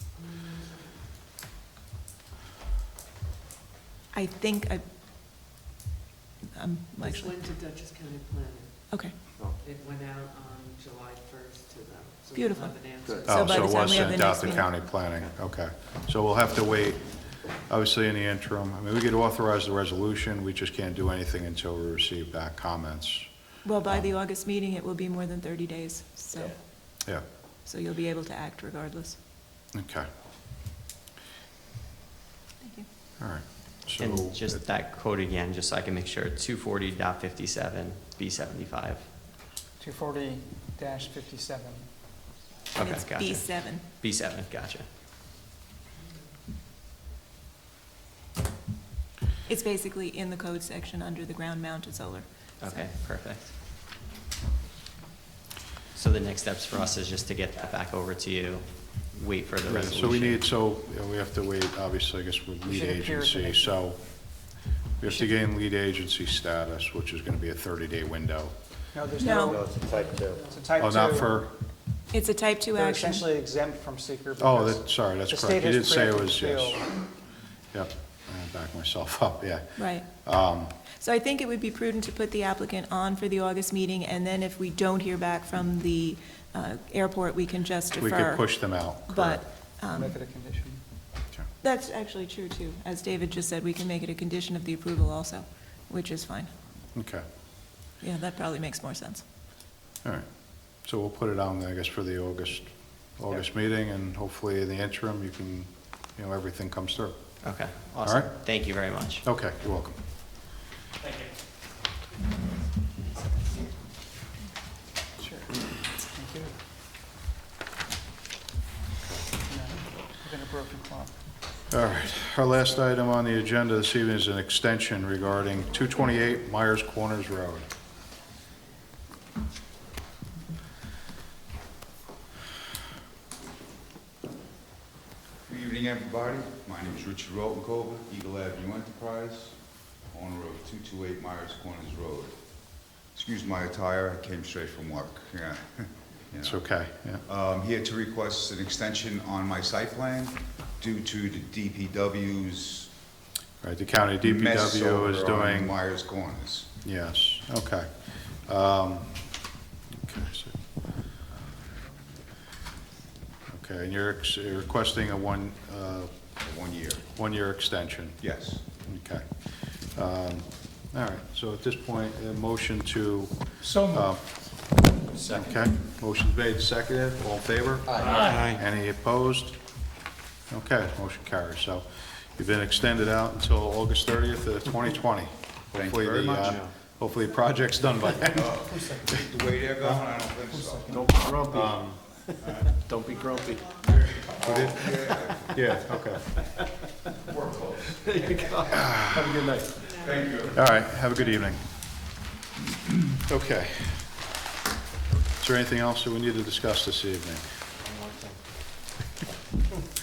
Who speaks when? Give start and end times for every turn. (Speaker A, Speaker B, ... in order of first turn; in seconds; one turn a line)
Speaker A: 0.2-1.0
Speaker B: 4.1-4.8
Speaker B: 6.5-7.3
Speaker A: 7.0-13.9
Speaker B: 12.3-14.7
Speaker C: 13.0-13.4
Speaker D: 13.2-24.1
Speaker B: 23.6-29.2
Speaker D: 29.7-30.1
Speaker B: 32.6-32.9
Speaker D: 33.2-34.6
Speaker E: 34.0-39.1
Speaker F: 39.8-41.9
Speaker E: 42.7-44.9
Speaker B: 42.8-43.8
Speaker B: 49.5-52.9
Speaker E: 52.6-53.6
Speaker E: 55.9-60.5
Speaker D: 59.6-68.5
Speaker F: 62.6-63.8
Speaker F: 68.9-71.4
Speaker A: 69.1-71.1
Speaker B: 69.2-69.6
Speaker D: 70.8-71.5
Speaker B: 72.1-73.2
Speaker F: 72.7-76.8
Speaker D: 74.4-77.2
Speaker A: 76.1-76.8
Speaker D: 77.7-80.7
Speaker B: 79.8-80.1
Speaker B: 80.9-90.3
Speaker D: 88.0-89.4
Speaker F: 89.9-90.8
Speaker B: 91.6-96.5
Speaker D: 96.9-97.2
Speaker B: 98.0-99.2
Speaker D: 100.0-110.5
Speaker E: 107.4-109.2
Speaker F: 115.2-116.5
Speaker F: 119.5-121.1
Speaker A: 120.4-120.8
Speaker D: 121.7-127.7
Speaker G: 135.5-146.7
Speaker D: 146.4-147.2
Speaker G: 147.2-153.0
Speaker D: 153.6-155.8
Speaker G: 154.2-156.7
Speaker D: 156.8-161.0
Speaker D: 163.5-166.2
Speaker G: 166.4-167.0
Speaker D: 167.1-179.9
Speaker G: 168.2-168.6
Speaker C: 175.2-175.5
Speaker C: 177.9-178.6
Speaker D: 180.5-189.1
Speaker G: 185.7-186.7
Speaker C: 186.4-186.7
Speaker G: 188.3-191.4
Speaker D: 189.8-190.1
Speaker A: 190.5-190.8
Speaker C: 190.9-193.8
Speaker D: 191.5-192.2
Speaker G: 192.4-192.7
Speaker G: 193.8-195.6
Speaker D: 194.4-194.8
Speaker C: 194.5-195.6
Speaker D: 195.5-196.4
Speaker C: 196.4-196.6
Speaker G: 197.2-199.0
Speaker C: 197.9-199.9
Speaker D: 198.7-199.3
Speaker G: 199.8-200.7
Speaker D: 200.5-201.8
Speaker D: 203.2-204.3
Speaker D: 205.4-207.4
Speaker C: 207.8-208.8